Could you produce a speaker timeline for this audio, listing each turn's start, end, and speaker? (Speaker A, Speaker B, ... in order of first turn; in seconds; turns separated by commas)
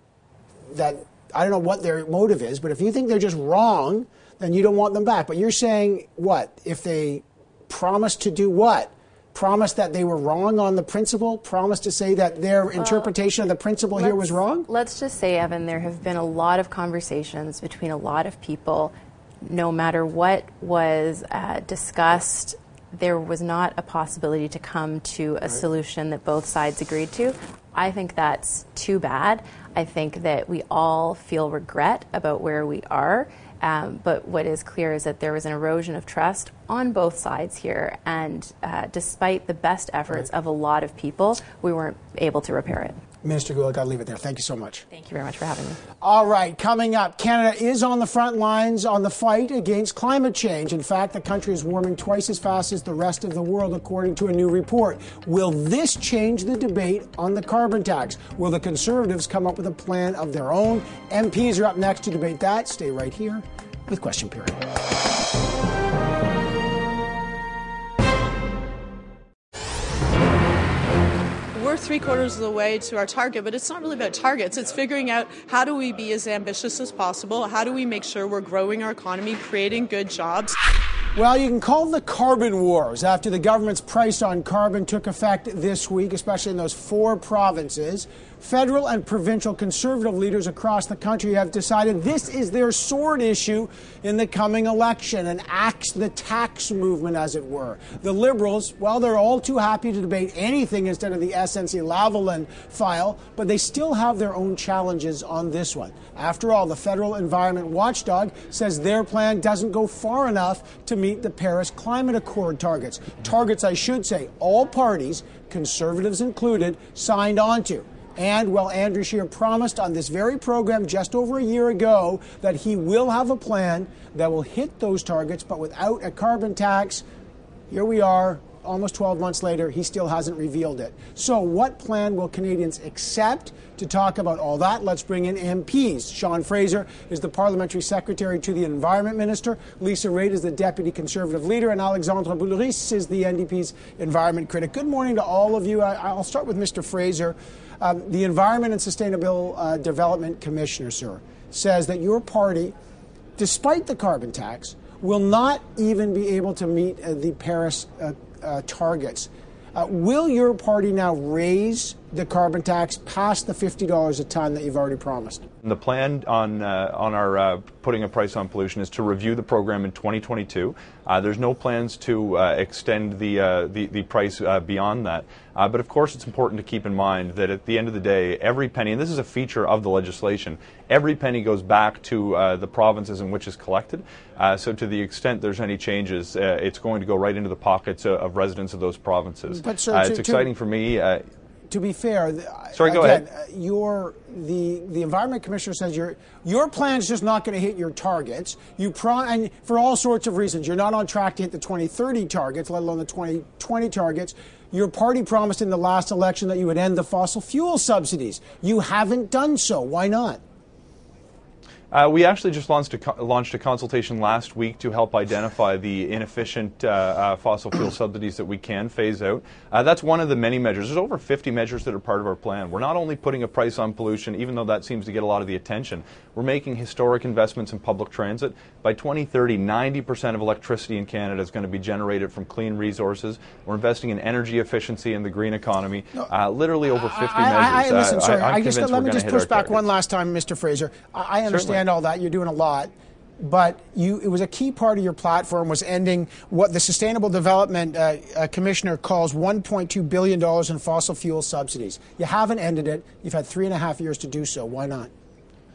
Speaker A: 0.7-14.7, Speaker B: 12.8-13.1, Speaker B: 13.9-43.0, Speaker A: 43.2-44.9, Speaker B: 44.9-45.8, Speaker A: 46.0-64.6, Speaker C: 71.5-80.5, Speaker A: 81.2-127.0, Speaker A: 127.7-152.8, Speaker A: 153.4-165.4, Speaker D: 165.6-191.2, Speaker A: 189.5-190.5, Speaker A: 191.7-210.4, Speaker D: 192.7-193.2, Speaker D: 211.9-239.8, Speaker A: 236.9-255.1, Speaker D: 241.5-241.8